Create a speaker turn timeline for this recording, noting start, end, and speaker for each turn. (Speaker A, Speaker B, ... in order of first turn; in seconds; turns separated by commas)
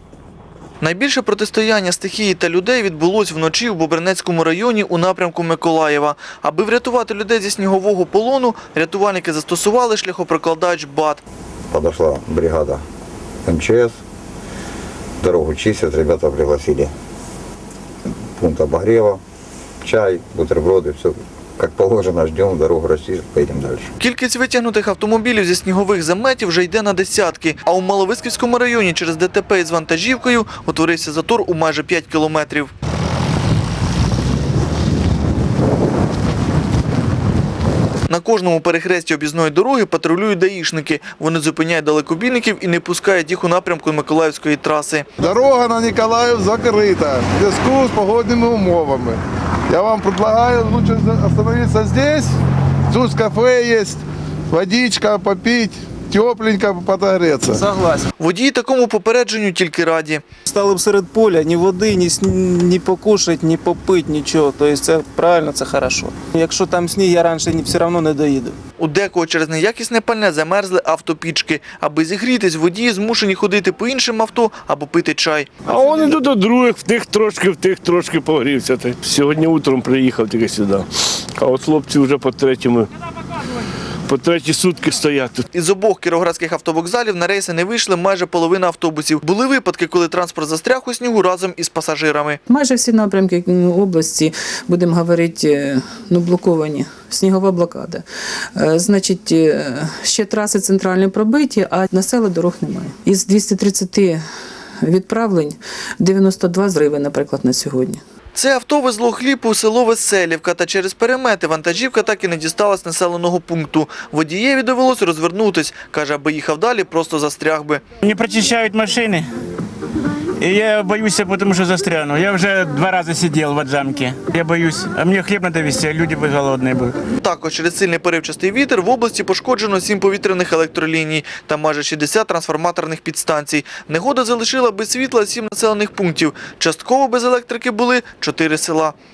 Speaker A: 0.8-11.2, Speaker B: 11.7-12.8, Speaker B: 13.4-14.0, Speaker B: 15.2-16.9, Speaker B: 18.4-19.2, Speaker B: 19.8-23.9, Speaker A: 24.0-32.7, Speaker A: 38.1-45.1, Speaker C: 45.2-52.3, Speaker C: 52.9-57.6, Speaker D: 57.5-58.1, Speaker A: 58.2-60.2, Speaker D: 60.5-68.6, Speaker A: 68.8-75.7, Speaker E: 75.7-82.9, Speaker E: 84.1-85.5, Speaker A: 85.5-92.4, Speaker F: 92.5-98.0, Speaker F: 98.6-104.2, Speaker F: 104.8-108.0, Speaker A: 108.3-117.8, Speaker G: 118.0-119.3, Speaker G: 120.4-127.0, Speaker A: 127.2-139.0